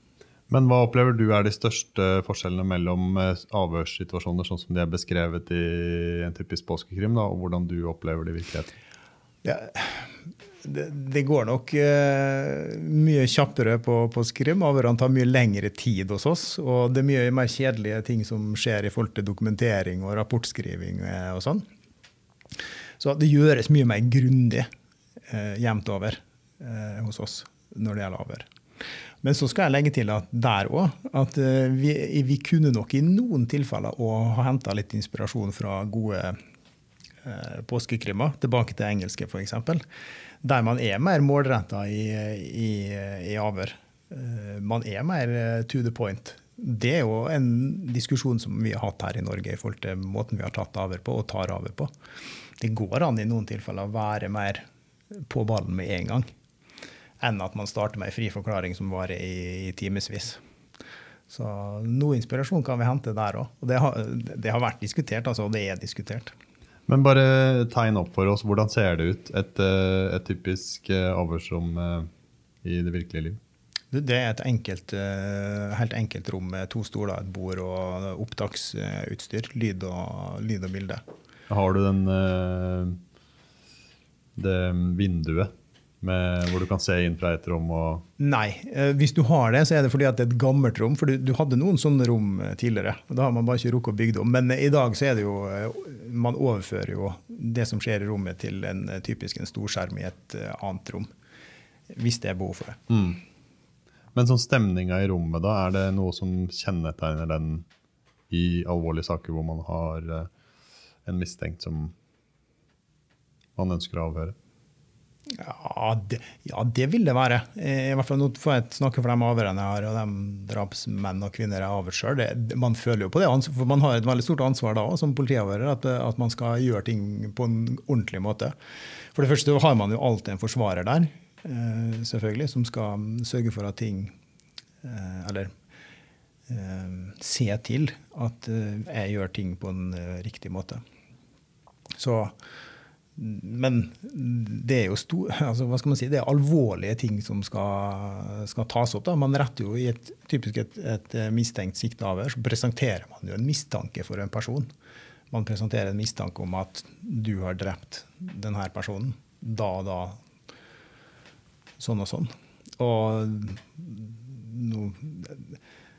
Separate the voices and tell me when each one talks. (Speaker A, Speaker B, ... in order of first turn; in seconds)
Speaker A: 0.5-8.7, 66.9-72.1, 72.6-73.4, 81.5-83.0, 84.4-85.5, 86.0-88.0, 102.9-103.2, 104.2-107.7, 108.3-110.3, 111.0-112.0, 113.6-114.3
Speaker B: 9.4-21.6, 23.0-24.7, 25.2-28.5, 29.2-36.4, 37.2-39.8, 40.4-51.9, 52.6-54.6, 55.1-56.3, 57.2-60.4, 61.3-66.3, 73.9-81.0, 88.2-101.1, 101.9-102.8, 115.3-128.5, 129.1-134.1, 134.8-135.5, 136.5-140.8, 142.0-142.3, 143.2-154.7, 155.3-160.2, 161.8-165.6